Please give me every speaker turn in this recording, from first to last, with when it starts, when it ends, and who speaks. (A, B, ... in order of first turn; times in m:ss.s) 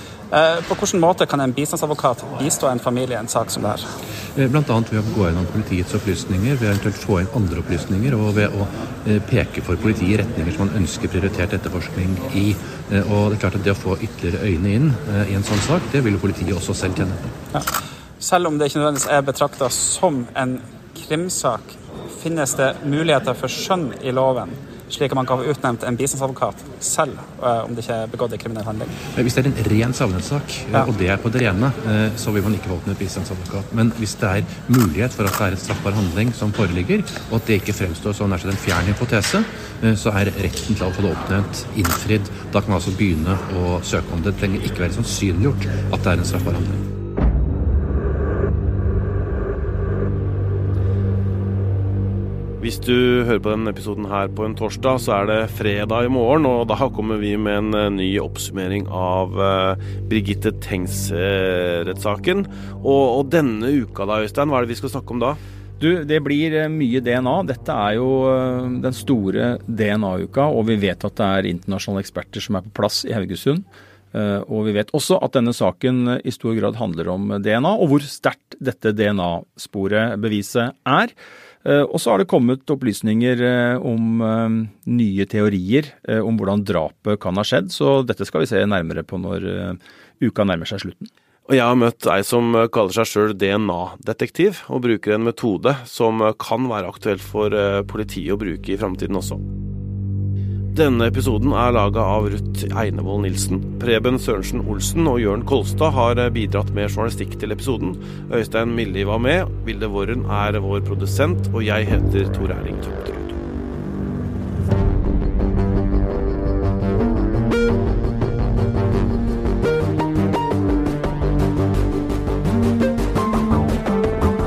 0:00.3-0:03.8 A
0:04.3-0:17.3 B
0:17.5-0:29.0 A
0:29.1-0:46.8 B
0:52.6-1:05.4 C
1:05.8-1:21.1 D
1:21.6-1:31.1 D
1:31.5-1:39.4 C
1:40.7-1:53.4 C